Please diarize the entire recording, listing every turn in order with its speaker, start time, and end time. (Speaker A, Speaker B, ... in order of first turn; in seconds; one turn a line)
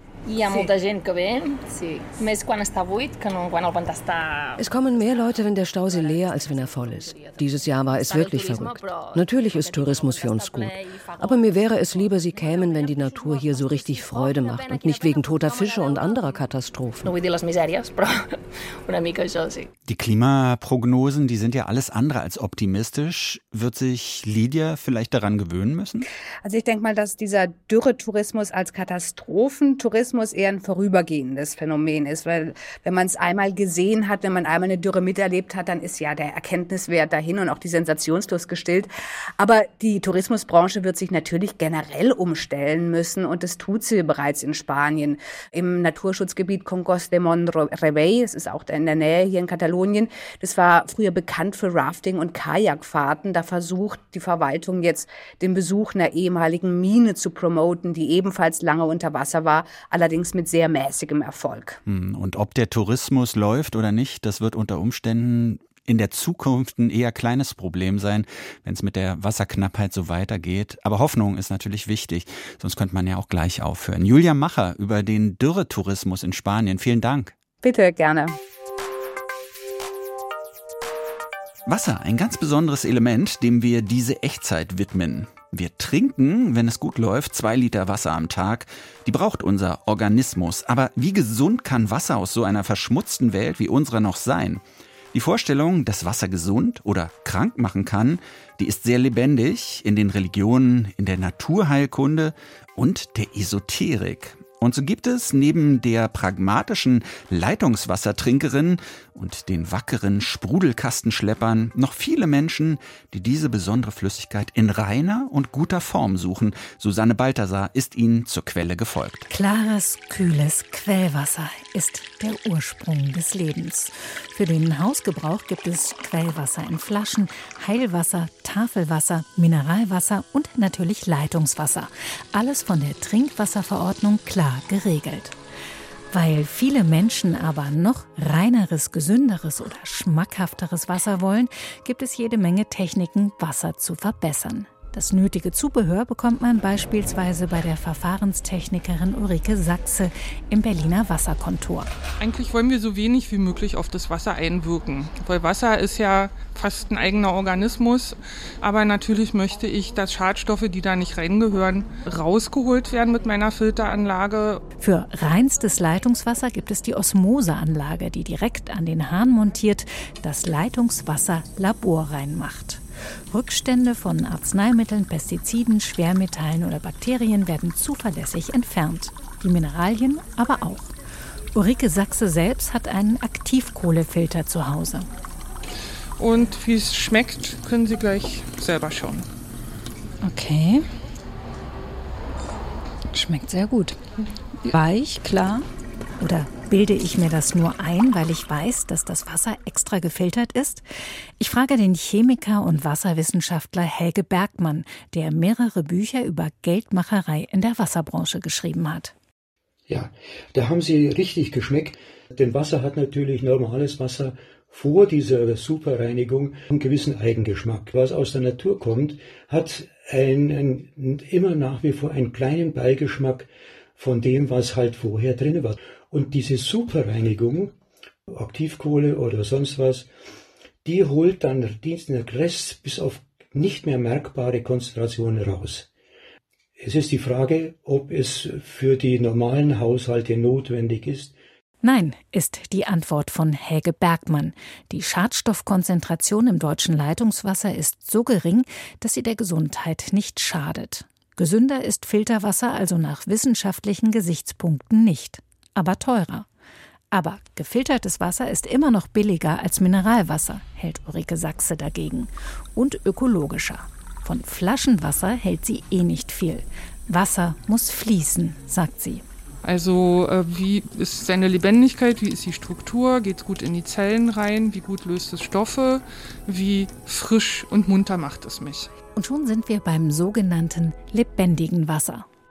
Speaker A: 0.3-4.6
Speaker B: 4.6-17.1
Speaker A: 17.1-18.1
Speaker A: 18.9-19.7
Speaker C: 19.9-26.1
Speaker D: 26.4-61.8
Speaker C: 61.9-77.3
Speaker D: 77.6-78.4
Speaker C: 81.7-94.6
Speaker C: 95.1-119.3
Speaker E: 119.3-135.4
Speaker E: 136.1-151.9
Speaker F: 152.2-164.6
Speaker E: 164.8-180.9
Speaker E: 181.5-185.1
Speaker F: 186.2-189.3
Speaker E: 196.2-200.8
Speaker E: 201.4-209.1
Speaker G: 209.9-227.8
Speaker G: 228.3-230.1
Speaker G: 230.8-235.9
Speaker G: 236.8-241.3
Speaker E: 241.8-256.5
Speaker E: 257.1-269.2
Speaker F: 269.6-278.9
Speaker E: 279.1-282.3